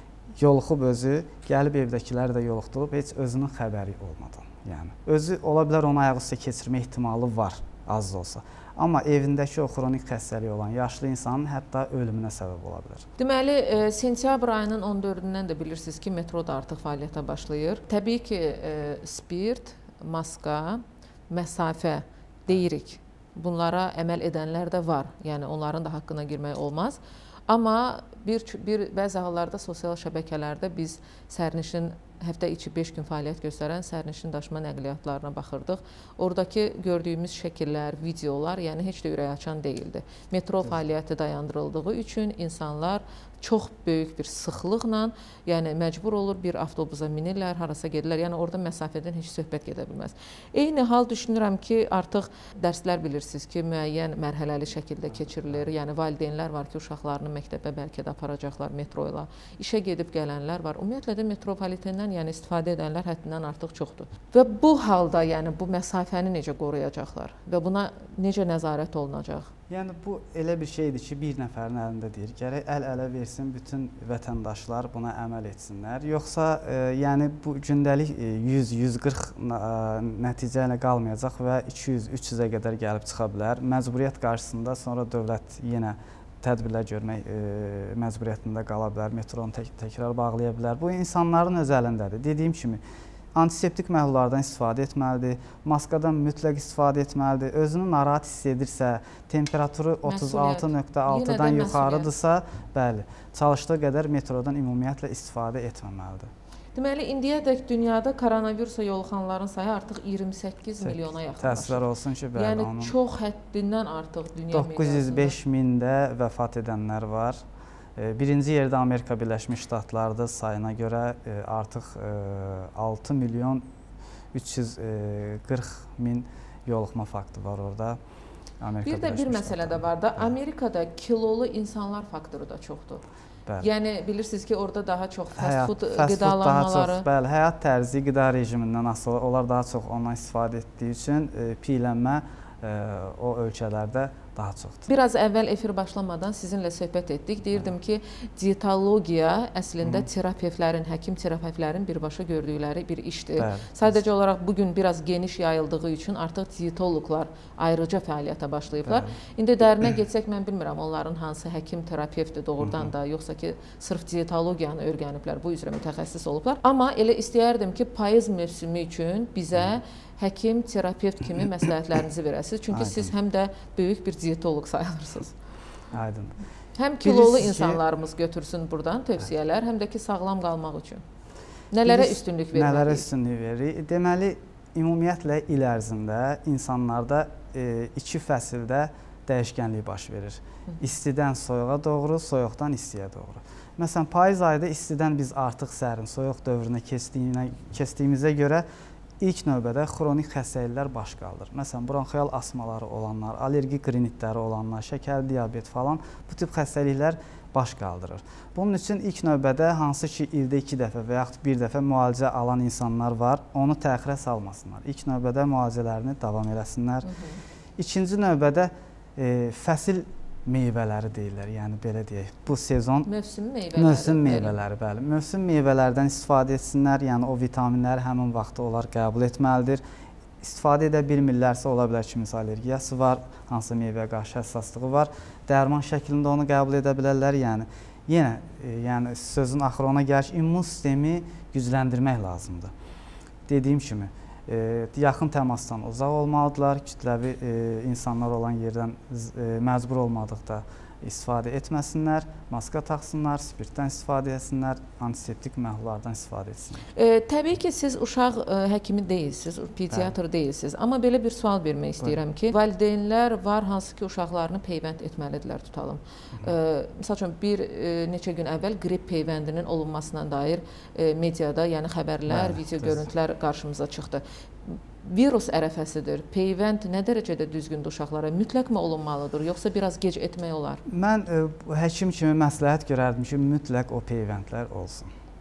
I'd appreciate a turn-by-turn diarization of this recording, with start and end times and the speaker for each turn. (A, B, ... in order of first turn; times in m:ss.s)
0:00.4-0:13.0 A
0:13.2-1:09.5 B
1:09.7-1:32.8 A
1:33.3-1:46.3 A
1:40.0-1:42.1 B
1:46.7-1:55.4 B
1:50.8-1:52.9 A
1:54.5-1:57.4 A
1:58.0-2:03.6 A
2:04.3-2:08.0 A
2:08.6-2:10.3 A
2:08.8-2:13.0 B
2:13.6-2:17.0 B
2:15.4-2:24.9 A
2:24.9-2:55.3 B
2:29.8-2:30.1 A
2:33.4-2:33.9 A
2:38.8-2:39.1 A
2:42.6-2:42.9 A
2:52.7-2:53.1 A
2:55.9-2:56.3 A
2:56.8-3:01.0 B
2:57.0-2:57.8 A
3:01.7-3:03.1 B
3:01.8-3:18.6 A
3:19.2-3:37.1 A
3:37.0-3:37.4 B
3:37.8-3:43.1 A
3:43.0-3:44.6 B
3:43.7-3:49.8 A
3:50.4-4:02.7 A
4:03.5-4:16.8 A
4:16.9-4:40.8 B
4:32.3-4:33.0 A
4:40.8-4:45.1 A